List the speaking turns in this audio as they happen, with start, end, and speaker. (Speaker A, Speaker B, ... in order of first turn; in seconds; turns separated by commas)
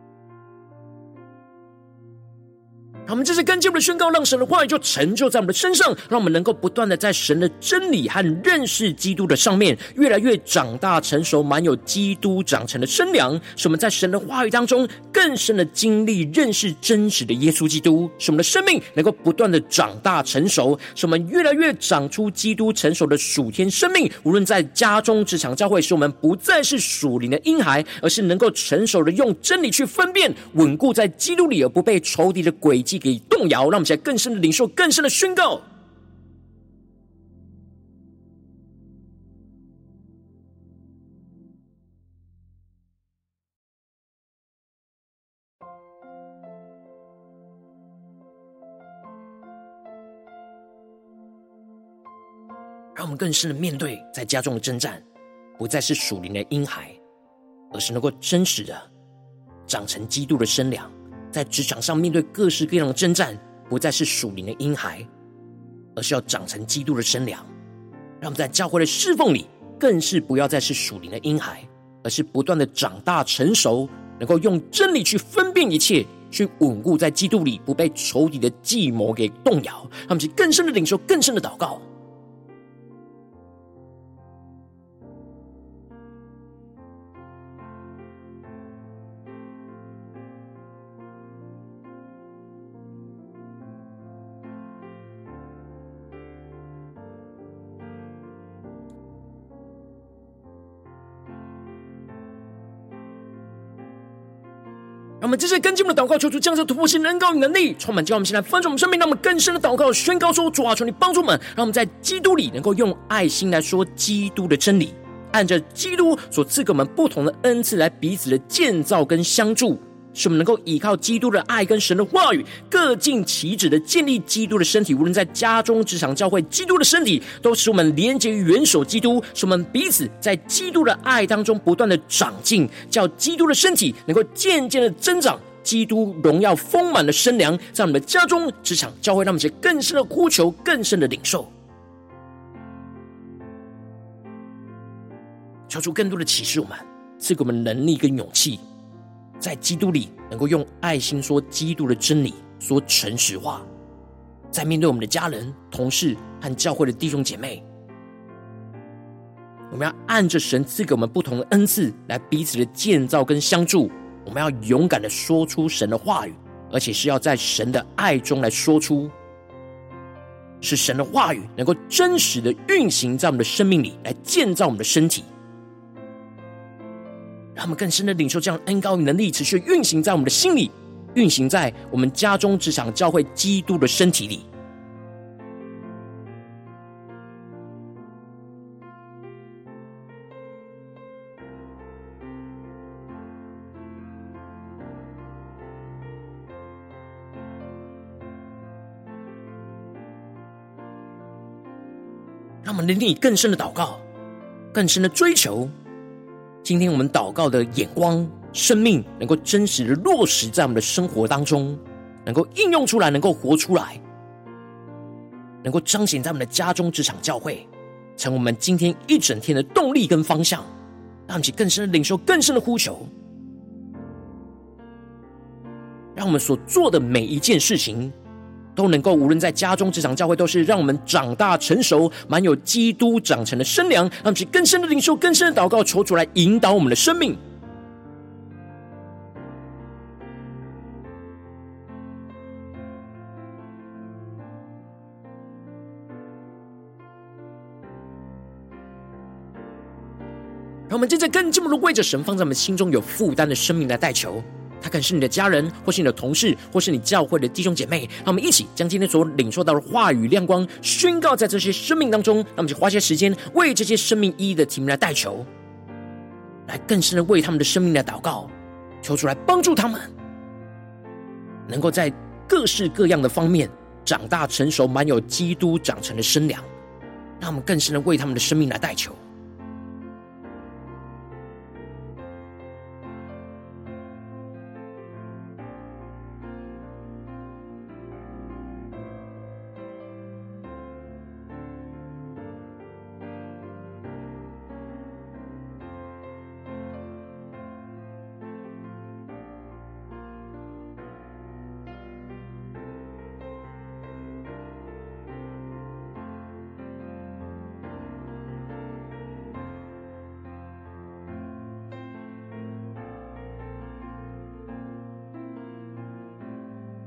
Speaker A: 3.1-35.6, Speaker A: 53.0-55.0, Speaker A: 55.6-57.0, Speaker A: 57.7-58.9, Speaker A: 59.7-65.1, Speaker A: 66.0-67.5, Speaker A: 68.2-81.8, Speaker A: 105.2-141.5, Speaker A: 145.7-148.6, Speaker A: 149.4-153.7, Speaker A: 154.5-157.6, Speaker A: 159.7-169.1, Speaker A: 170.6-175.3, Speaker A: 177.6-184.5, Speaker A: 202.6-204.0, Speaker A: 204.7-205.7, Speaker A: 206.6-214.0, Speaker A: 215.6-220.7, Speaker A: 221.3-223.1, Speaker A: 226.2-228.2, Speaker A: 228.8-237.4, Speaker A: 250.9-265.5, Speaker A: 266.7-270.1, Speaker A: 271.7-276.7, Speaker A: 277.4-279.2